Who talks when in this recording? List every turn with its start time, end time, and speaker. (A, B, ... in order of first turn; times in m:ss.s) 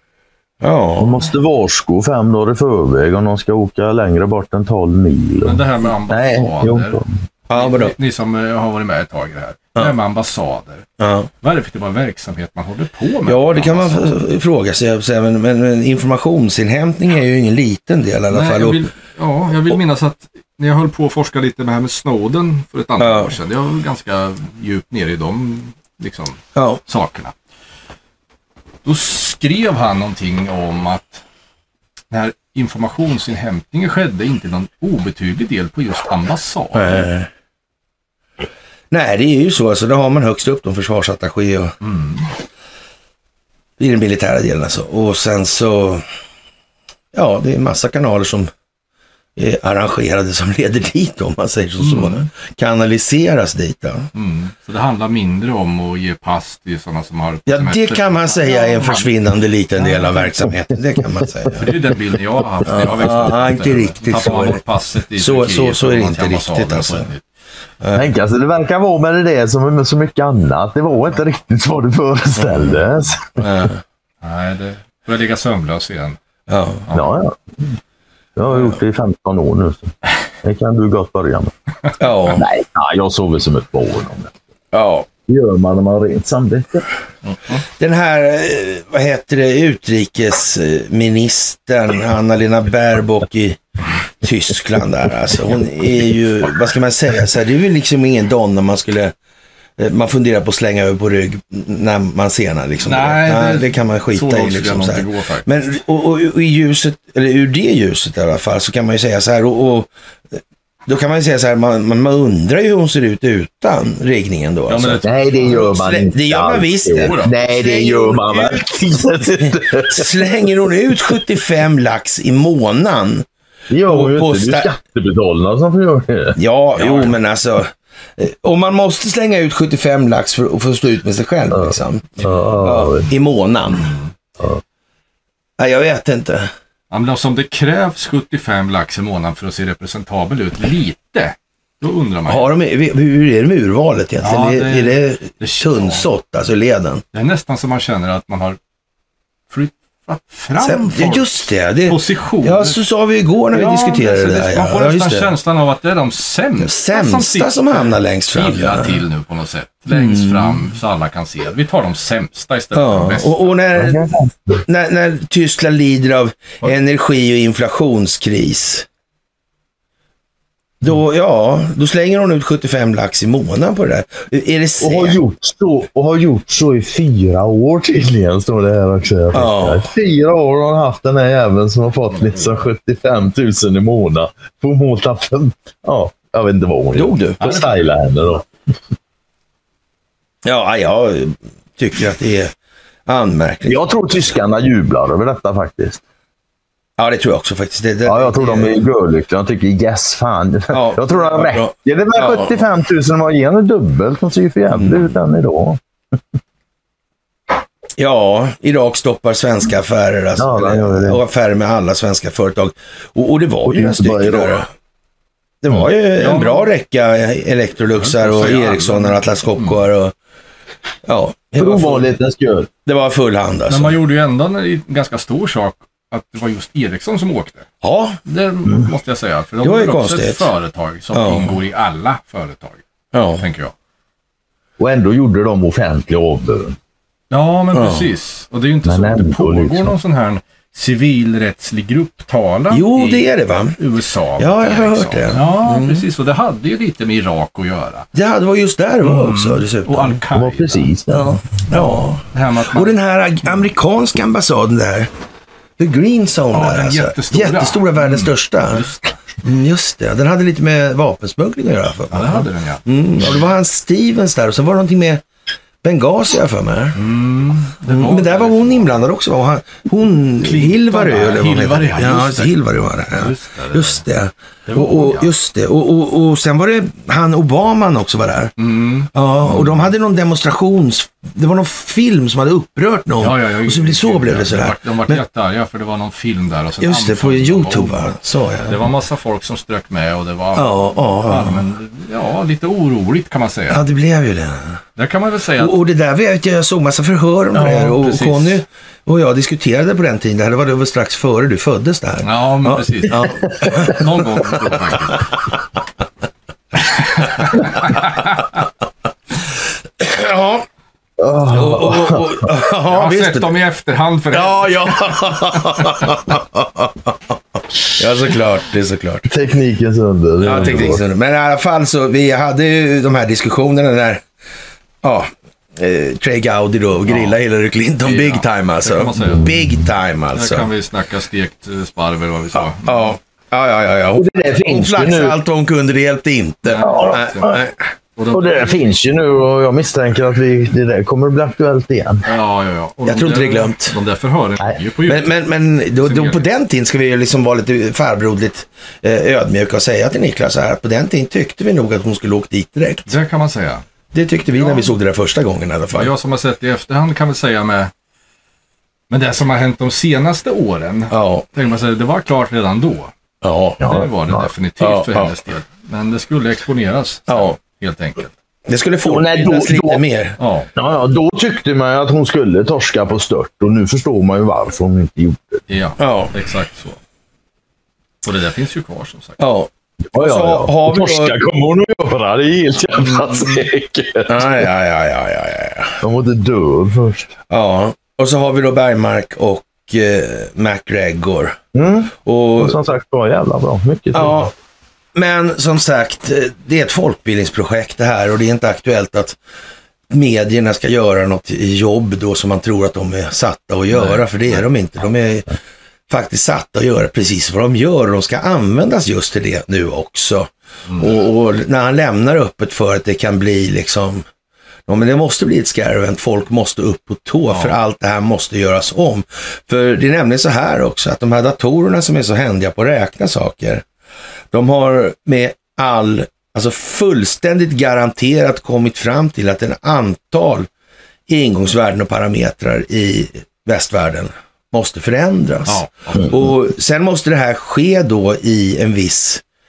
0:00.6-0:01.3 A
0:01.0-0:07.1 B
0:05.4-0:07.0 C
0:07.5-0:07.9 A
0:07.5-0:10.8 C
0:11.0-0:11.3 A
0:11.4-0:14.1 C
0:13.2-0:18.8 A
0:18.3-0:27.3 C
0:23.0-0:23.3 A
0:26.5-0:26.8 A
0:28.8-0:31.2 C
0:32.1-0:37.0 C
0:36.7-0:37.3 A
0:38.9-0:41.7 A
0:41.8-0:42.3 C
0:43.8-0:46.0 A
0:47.1-0:48.5 A
0:49.4-0:54.1 A
0:51.8-0:52.2 C
0:54.1-0:59.1 C
0:57.5-1:01.7 A
0:59.8-1:00.2 C
1:01.6-1:07.2 C
1:02.7-1:04.6 A
1:05.2-1:07.1 A
1:07.8-1:08.1 A
1:07.9-1:13.4 B
1:12.4-1:12.8 A
1:13.4-1:13.8 A
1:14.2-1:16.2 C
1:16.5-1:16.9 A
1:16.9-1:17.4 B
1:18.4-1:21.5 B
1:18.5-1:18.8 A
1:22.0-1:22.4 A
1:22.3-1:24.4 B
1:24.7-1:25.1 A
1:25.3-1:26.9 B
1:27.2-1:27.6 C
1:27.8-1:33.6 A
1:34.2-1:39.1 A
1:39.8-1:58.7 A
1:42.8-1:45.5 C
1:54.7-1:55.8 C
1:55.0-2:00.3 B
1:57.0-1:57.7 C
1:59.4-2:03.2 A
2:03.7-2:06.4 B
2:03.8-2:04.7 A
2:06.4-2:13.9 A
2:06.8-2:07.2 C
2:11.5-2:13.1 B
2:13.8-2:14.1 C
2:15.6-2:16.5 A
2:16.9-2:22.5 C
2:22.3-2:27.0 A
2:24.2-2:26.0 C
2:27.1-2:28.6 C
2:29.5-2:32.8 C
2:30.6-2:35.3 A
2:33.5-2:43.5 C
2:36.6-2:39.0 A
2:39.9-2:40.6 A
2:42.7-2:44.1 A
2:43.7-2:44.6 B
2:44.6-2:48.8 A
2:50.8-2:55.2 A
2:54.8-3:08.5 B
2:59.3-2:59.9 A
3:06.9-3:07.4 A
3:10.4-3:12.5 A
3:13.0-3:14.0 A
3:13.7-3:16.0 B
3:17.0-3:18.8 A
3:18.0-3:25.8 B
3:20.7-3:22.6 A
3:24.7-3:25.1 A
3:28.0-3:34.7 A
3:30.4-3:31.2 B
3:33.6-3:34.6 B
3:35.6-3:40.1 A
3:36.2-3:36.7 C
3:37.9-3:39.8 C
3:41.0-3:42.1 A
3:41.6-3:42.7 B
3:42.8-3:44.0 A
3:43.7-3:47.7 C
3:47.8-3:48.2 A
3:48.2-3:52.8 C
3:49.6-3:50.5 A
3:51.1-3:51.6 A
3:53.1-3:53.4 A
3:53.4-3:53.7 C
3:54.8-3:56.8 B
3:57.3-4:08.1 C
3:57.7-3:58.1 A
3:58.8-3:59.9 B
4:02.7-4:03.8 A
4:04.4-4:06.0 A
4:08.1-4:10.2 A
4:09.0-4:10.9 C
4:10.3-4:11.4 B
4:11.1-4:15.1 A
4:11.7-4:12.9 C
4:15.8-4:18.9 A
4:16.5-4:19.1 C
4:19.4-4:25.2 A
4:22.1-4:22.8 C
4:25.8-4:27.0 A
4:26.9-4:29.0 C
4:27.8-4:38.5 A
4:30.4-4:32.5 C
4:33.1-4:34.0 C
4:34.7-4:35.3 C
4:38.6-4:39.9 C
4:39.1-4:45.2 A
4:43.2-4:48.1 C
4:46.8-4:48.8 A
4:48.6-4:53.8 C
4:50.5-4:51.6 A
4:53.7-4:54.8 A
4:55.0-4:55.8 C
4:55.6-5:05.2 A
4:57.5-4:58.6 C
5:02.2-5:05.3 C
5:06.8-5:08.5 C
5:10.0-5:10.6 A
5:11.2-5:12.4 B
5:11.5-5:13.5 A
5:12.9-5:15.9 C
5:14.3-5:17.3 A
5:17.9-5:19.3 A
5:19.3-5:21.0 B
5:20.4-5:24.2 A
5:20.4-5:20.9 C
5:25.0-5:30.7 A
5:27.0-5:27.4 C
5:28.0-5:29.5 C
5:30.3-5:33.0 C
5:32.5-5:37.8 A
5:34.2-5:35.4 B
5:36.6-5:37.6 C
5:36.8-5:37.6 B
5:38.2-5:38.9 C
5:38.3-5:42.2 B
5:42.2-5:45.4 C
5:43.0-5:43.9 A
5:45.0-5:53.1 A
5:46.0-5:46.4 C
5:53.1-5:53.8 C
5:54.1-5:56.1 A
5:54.6-5:54.9 C
5:55.9-5:57.9 C
5:59.1-6:03.1 C
6:01.1-6:01.4 A
6:03.4-6:03.8 A
6:03.8-6:08.3 C
6:03.8-6:04.5 B
6:04.8-6:05.3 A
6:07.3-6:07.6 A
6:08.7-6:10.4 A
6:09.0-6:10.0 B
6:10.4-6:10.7 C
6:10.8-6:15.6 B
6:15.7-6:17.0 C
6:16.0-6:16.3 A
6:18.2-6:19.4 C
6:19.4-6:21.4 A
6:20.1-6:24.5 B
6:23.2-6:23.6 C
6:24.3-6:26.0 A
6:26.0-6:27.3 B
6:27.5-6:31.6 A
6:31.7-6:34.5 B
6:32.2-6:32.8 A
6:34.1-6:34.5 A
6:35.1-6:39.4 A
6:40.1-6:45.5 A
6:43.9-6:44.6 C
6:46.1-6:54.2 A
6:54.9-7:03.8 A
6:57.5-6:57.8 C
7:04.5-7:10.7 A
7:11.3-7:19.4 A
7:15.6-7:16.4 C